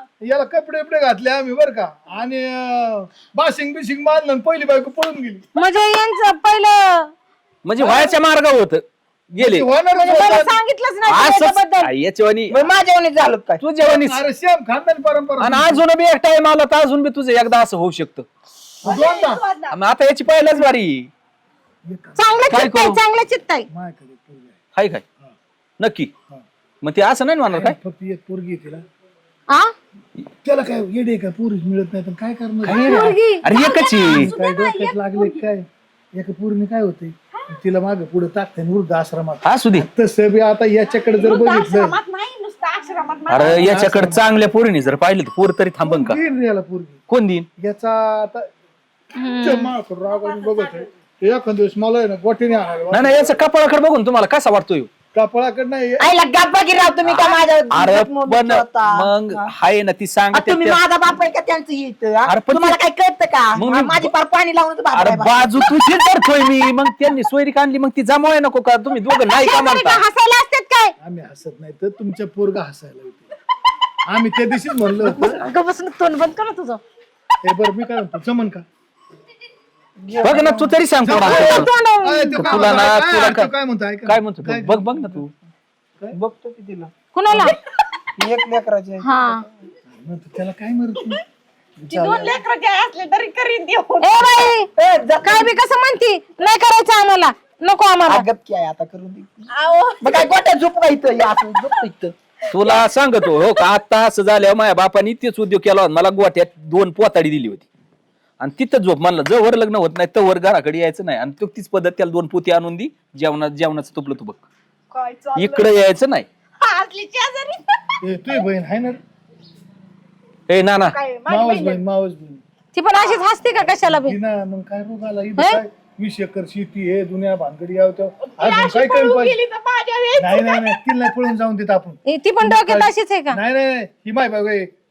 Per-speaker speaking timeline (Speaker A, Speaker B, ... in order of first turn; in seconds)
Speaker A: 0.2-5.4, 7.8-8.2, 9.4-10.6, 13.8-15.8, 18.8-19.4, 21.9-22.2, 23.7-24.6, 27.5-28.8, 30.4-33.1, 34.0-42.0, 43.4-44.2, 45.8-47.0, 47.6-48.5, 49.4-53.4, 55.1-56.1, 71.0-73.3, 74.1-75.2, 77.4-78.6, 81.0-85.3, 89.9-91.2, 118.0-119.0, 121.3-122.4, 123.6-129.4, 130.2-134.7
Speaker B: 5.5-7.1, 10.0-11.9, 22.2-23.6, 32.6-33.5, 49.1-49.7, 69.3-70.9, 75.0-76.8, 81.2-82.9, 87.1-87.5, 89.0-89.4, 94.0-94.7, 95.2-98.2, 122.7-124.2, 132.1-133.4
Speaker C: 7.6-8.8, 9.3-9.7, 11.1-12.6, 13.6-14.2, 15.4-18.2, 19.7-21.1, 22.5-23.0, 24.7-25.0, 25.8-26.1, 26.8-27.8, 32.6-34.3, 39.4-39.9, 43.3-46.2, 47.1-47.5, 52.9-54.9, 57.0-60.8, 62.3-62.8, 63.6-64.1, 64.9-70.0, 80.2-81.7, 82.4-83.5, 84.0-85.3, 102.5-107.7, 108.4-114.4, 115.3-116.3, 120.5-121.0
Speaker D: 12.5-13.6, 56.0-59.5, 60.3-65.8, 80.0-80.8, 86.1-87.5, 88.2-89.5, 91.8-92.4, 94.7-95.5, 98.1-99.4, 100.0-102.1
Speaker E: 18.8-19.8, 33.5-35.4, 41.0-43.8, 91.9-94.5, 99.5-100.3, 102.6-103.4, 114.9-115.7, 116.6-118.4, 120.9-121.8, 122.9-123.2, 128.3-130.8